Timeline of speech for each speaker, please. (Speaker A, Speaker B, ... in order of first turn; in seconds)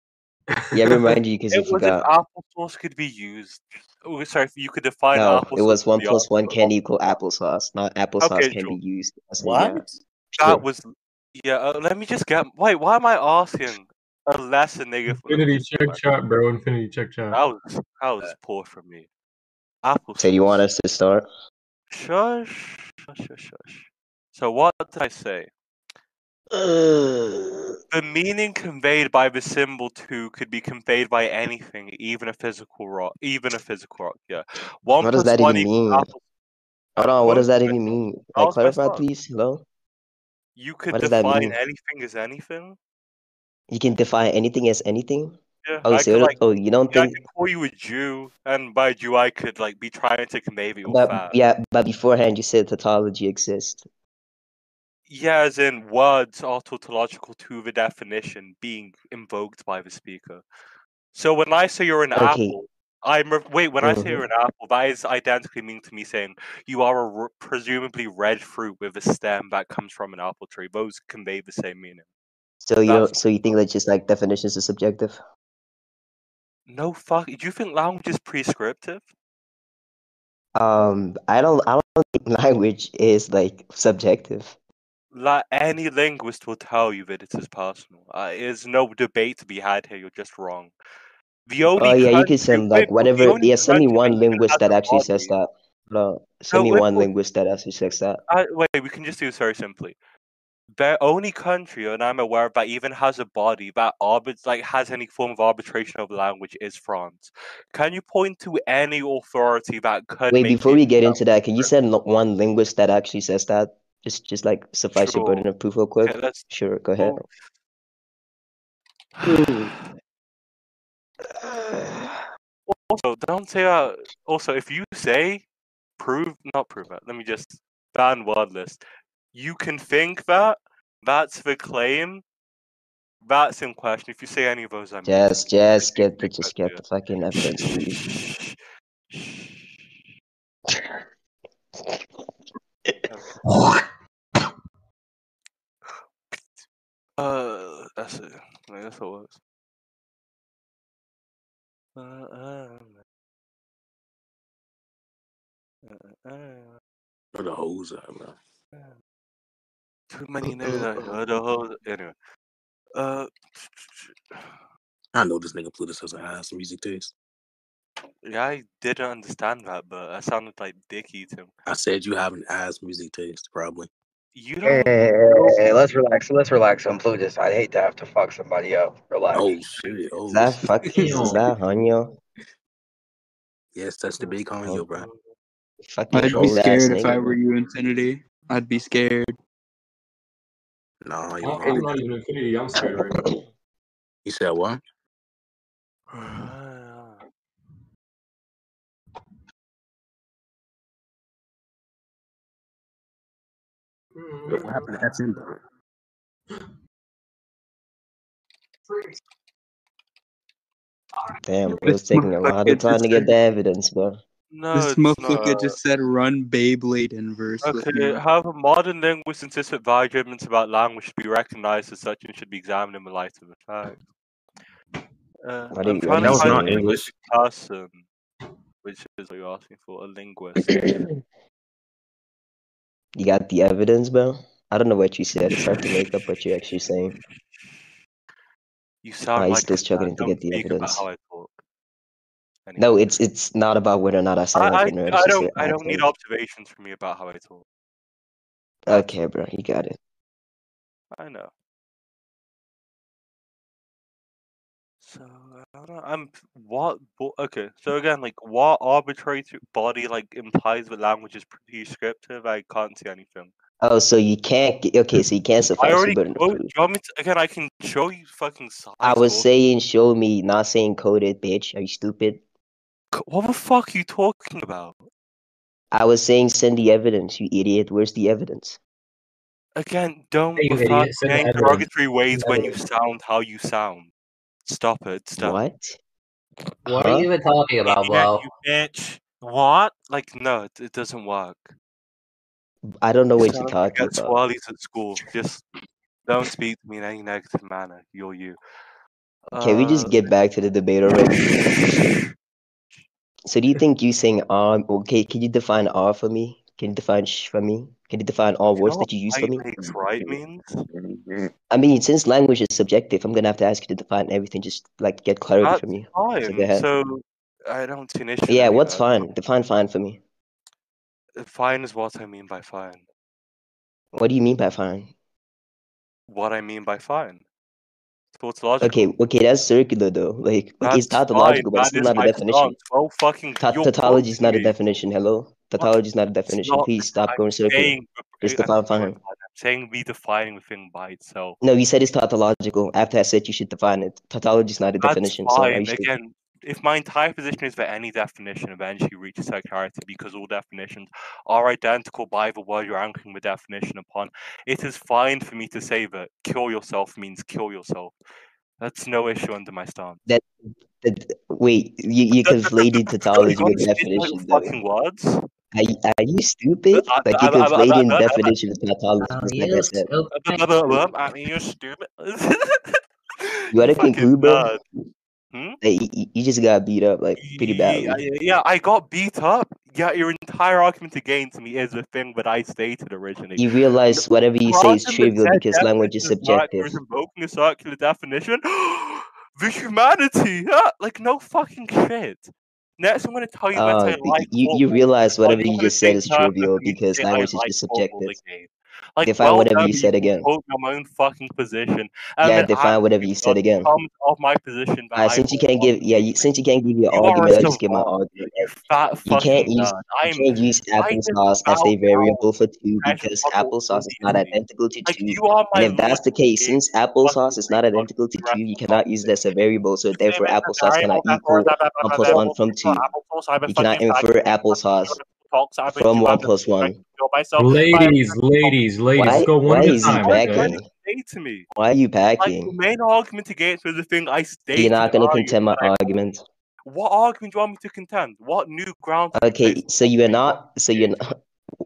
Speaker A: 0.7-1.2, 15.1-17.4, 180.9-181.4, 191.4-193.4, 204.2-204.8, 208.9-209.1, 427.6-430.7
Speaker B: 0.7-2.1, 5.1-9.8, 10.4-10.6, 20.2-21.2, 35.0-36.1, 37.0-39.6, 40.9-41.6, 43.7-47.2, 50.8-53.8, 62.1-62.6, 63.8-64.2, 72.6-75.2, 80.5-84.5, 91.7-98.2, 110.3-117.2, 135.0-138.0, 180.3-182.1, 185.8-187.4, 211.4-214.2, 225.7-226.9, 233.2-237.2, 239.3-241.0, 242.8-246.1, 248.8-250.0, 263.8-266.7, 269.0-272.4, 275.9-278.8, 285.4-286.0, 286.9-287.3, 292.9-294.4, 299.6-301.6, 303.4-309.7, 311.7-316.9, 318.5-320.2, 324.1-325.1, 328.8-332.8, 333.6-339.2, 341.6-346.1, 361.0-364.7, 365.7-370.1, 373.7-374.7, 375.8-378.2, 383.6-387.0, 393.7-398.4, 399.2-400.5, 402.4-404.0, 405.1-408.7, 409.2-423.0, 423.6-425.2, 425.9-427.0, 429.1-430.9, 431.7-432.7, 434.7-436.4, 439.3-441.2
Speaker C: 1.5-6.7, 8.2-8.8, 10.4-16.0, 17.3-19.1, 19.8-20.7, 21.9-25.5, 27.9-36.2, 37.0-37.7, 38.3-39.0, 40.6-42.8, 45.6-46.4, 46.9-51.3, 55.1-60.4, 61.1-72.0, 72.8-73.1, 76.7-79.0, 85.1-90.7, 91.5-95.3, 96.5-97.1, 98.3-100.0, 100.7-111.7, 114.9-115.4, 116.0-117.2, 119.2-119.6, 122.7-125.4, 126.0-128.8, 129.3-132.2, 133.2-136.8, 137.5-138.6, 139.1-139.8, 146.3-146.6, 147.2-149.4, 151.9-153.0, 155.8-156.8, 160.1-162.1, 162.9-164.2, 168.2-171.5, 174.3-175.6, 196.1-197.2, 211.8-213.3, 214.5-215.8, 217.6-224.0, 225.4-228.0, 228.8-230.7, 239.0-241.6, 242.7-243.1, 244.5-247.6, 251.1-251.5, 255.0-263.5, 265.8-269.5, 273.1-275.0, 279.8-284.1, 284.7-285.6, 287.9-291.7, 293.4-295.6, 296.3-298.6, 299.5-300.3, 308.8-310.8, 315.6-319.2, 321.4-323.0, 326.3-327.4, 328.4-329.1, 330.8-334.7, 335.8-341.6, 345.0-358.1, 358.8-360.2, 362.4-365.4, 366.9-368.5, 370.3-374.8, 375.5-375.8, 377.4-406.0, 407.1-412.4, 413.0-419.4, 420.1-431.6, 432.4-436.0, 436.9-441.1
Speaker D: 157.3-158.4, 165.1-167.1, 171.7-173.9, 179.3-180.6, 183.7-185.1, 186.3-186.6, 191.0-191.9, 194.2-194.8, 204.5-205.6, 226.2-227.1
Speaker E: 174.6-179.9
Speaker F: 186.1-189.3, 214.7-218.2
Speaker G: 280.6-282.7, 286.9-288.4, 369.2-371.0